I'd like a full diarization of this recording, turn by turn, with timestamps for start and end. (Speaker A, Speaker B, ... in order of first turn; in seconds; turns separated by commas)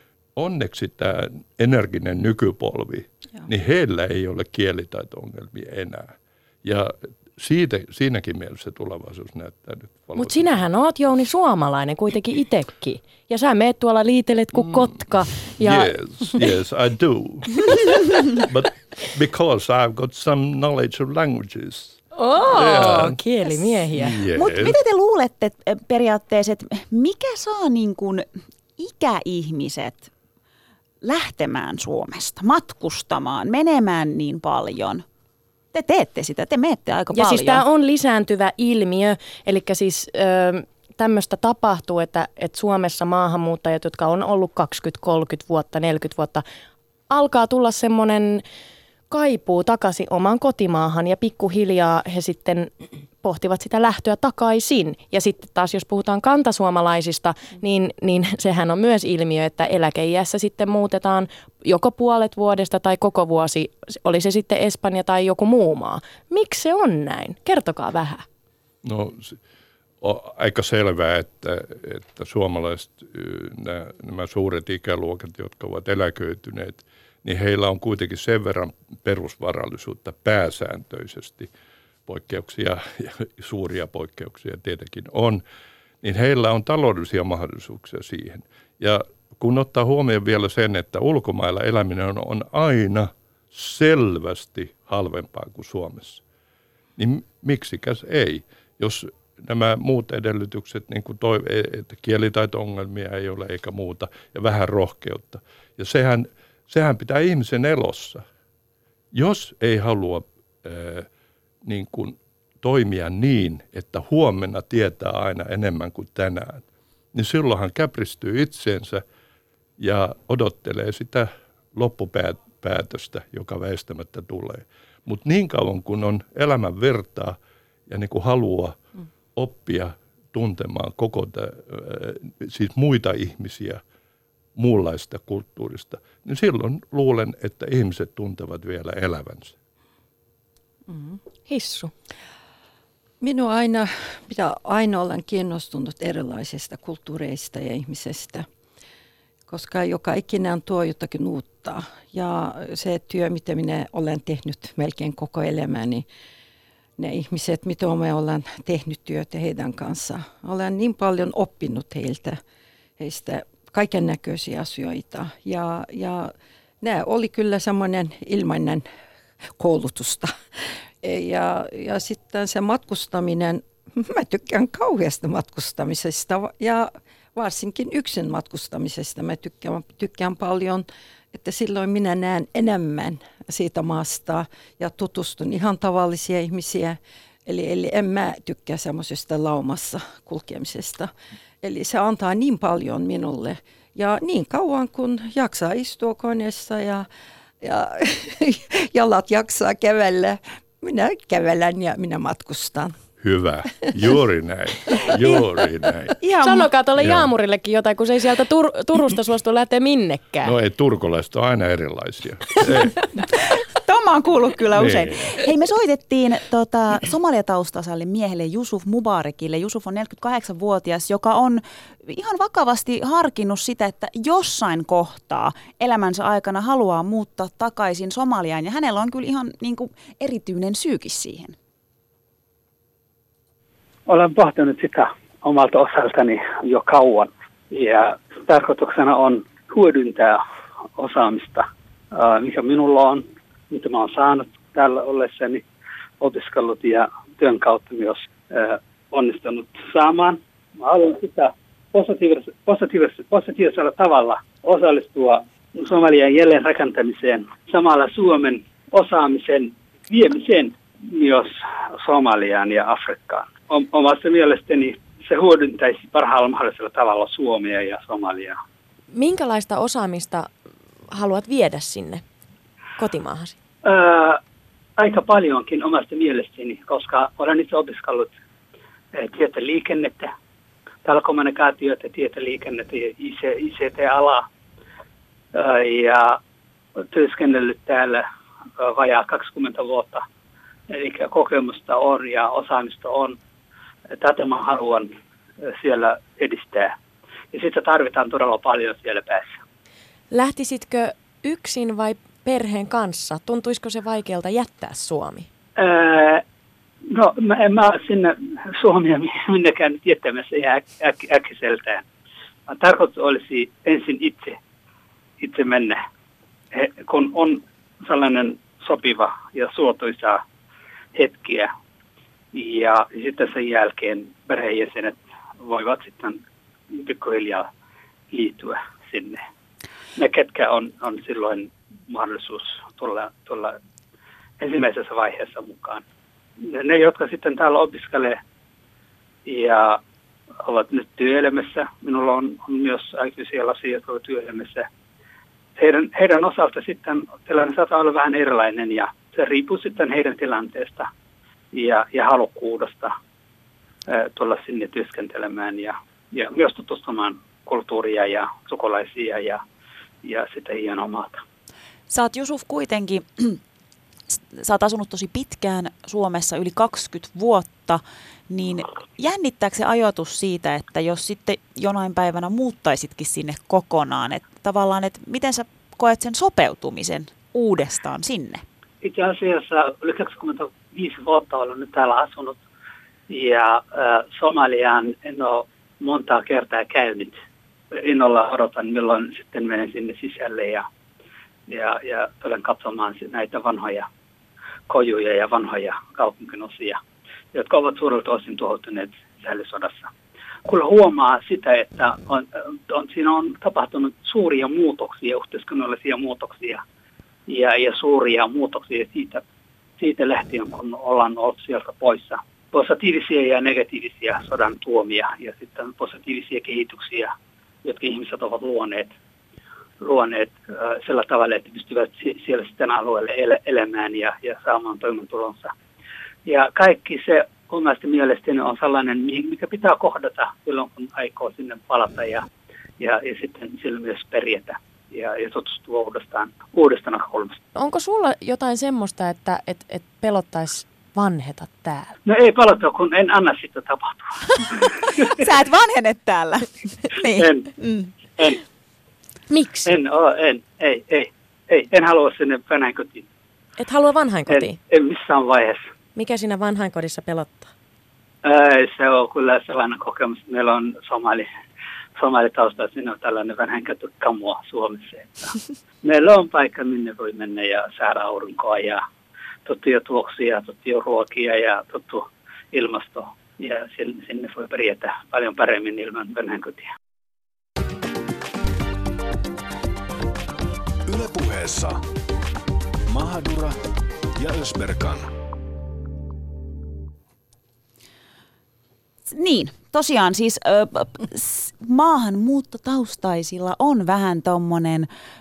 Speaker A: 0.4-6.1, Speaker A: 6.6-10.6, Speaker B: 10.2-15.9, Speaker A: 15.6-23.2, Speaker B: 22.1-24.2, Speaker A: 23.9-24.8, Speaker C: 24.3-28.2, Speaker C: 28.8-30.1, Speaker C: 31.0-35.0, Speaker C: 35.7-37.6, Speaker B: 37.1-46.4, Speaker B: 47.1-48.4, Speaker B: 49.1-52.7, Speaker B: 53.2-68.2, Speaker A: 68.8-69.4, Speaker A: 70.0-81.5, Speaker A: 82.0-85.4, Speaker A: 86.0-96.2, Speaker A: 97.0-108.2, Speaker A: 109.1-111.1, Speaker A: 111.6-119.0, Speaker A: 119.8-127.4, Speaker A: 127.9-128.8, Speaker A: 129.3-133.8, Speaker A: 134.6-139.5, Speaker D: 140.9-141.2, Speaker B: 141.5-141.9, Speaker D: 143.2-148.5, Speaker D: 149.5-156.1, Speaker D: 157.0-162.4, Speaker D: 163.0-168.8, Speaker D: 169.5-170.3, Speaker D: 171.0-197.1, Speaker D: 197.6-203.0, Speaker A: 203.2-206.2, Speaker C: 206.2-206.7, Speaker B: 206.4-210.5, Speaker A: 207.0-207.3, Speaker A: 210.4-213.1, Speaker C: 213.5-231.6, Speaker A: 214.7-215.4, Speaker E: 234.1-240.4, Speaker E: 240.9-245.6, Speaker E: 246.2-268.6, Speaker B: 269.1-270.5, Speaker B: 271.1-272.2, Speaker B: 273.0-273.5, Speaker E: 273.8-274.4, Speaker E: 275.0-278.3, Speaker E: 279.1-280.3, Speaker E: 281.0-284.4, Speaker E: 285.5-286.4, Speaker E: 287.0-288.2, Speaker E: 288.8-290.2, Speaker E: 290.9-293.4, Speaker E: 294.1-296.9, Speaker E: 297.5-299.6, Speaker B: 300.3-305.5, Speaker E: 305.8-306.4, Speaker E: 307.1-312.0, Speaker E: 312.7-314.6, Speaker E: 315.4-316.0, Speaker E: 316.7-320.4, Speaker E: 321.1-321.7, Speaker E: 322.5-326.4, Speaker E: 326.9-327.7, Speaker E: 328.3-329.4, Speaker E: 330.1-333.8, Speaker E: 334.6-336.0, Speaker E: 336.6-338.4, Speaker E: 339.4-340.0, Speaker E: 340.6-344.9, Speaker E: 345.8-351.1, Speaker E: 351.7-353.1, Speaker E: 354.1-359.6, Speaker E: 360.2-361.4, Speaker C: 362.1-363.6, Speaker C: 364.4-378.6, Speaker E: 379.0-382.6, Speaker E: 383.3-387.4, Speaker E: 387.9-390.8, Speaker E: 391.7-394.1, Speaker E: 394.9-397.0, Speaker E: 397.5-400.1, Speaker E: 400.6-406.8, Speaker E: 407.5-409.4, Speaker E: 410.0-417.3, Speaker E: 417.8-419.1, Speaker E: 420.0-425.7, Speaker E: 426.4-432.4, Speaker E: 433.0-437.6, Speaker B: 437.7-442.1, Speaker E: 442.2-445.3, Speaker C: 445.2-448.1, Speaker E: 447.3-447.7, Speaker B: 449.5-449.9, Speaker E: 449.8-453.3, Speaker B: 453.8-454.8, Speaker E: 454.5-455.9, Speaker B: 456.1-457.7, Speaker E: 458.4-461.5, Speaker E: 462.2-469.0, Speaker E: 469.6-476.9, Speaker F: 481.1-482.0, Speaker F: 483.1-483.8, Speaker F: 484.4-485.3, Speaker C: 489.3-495.1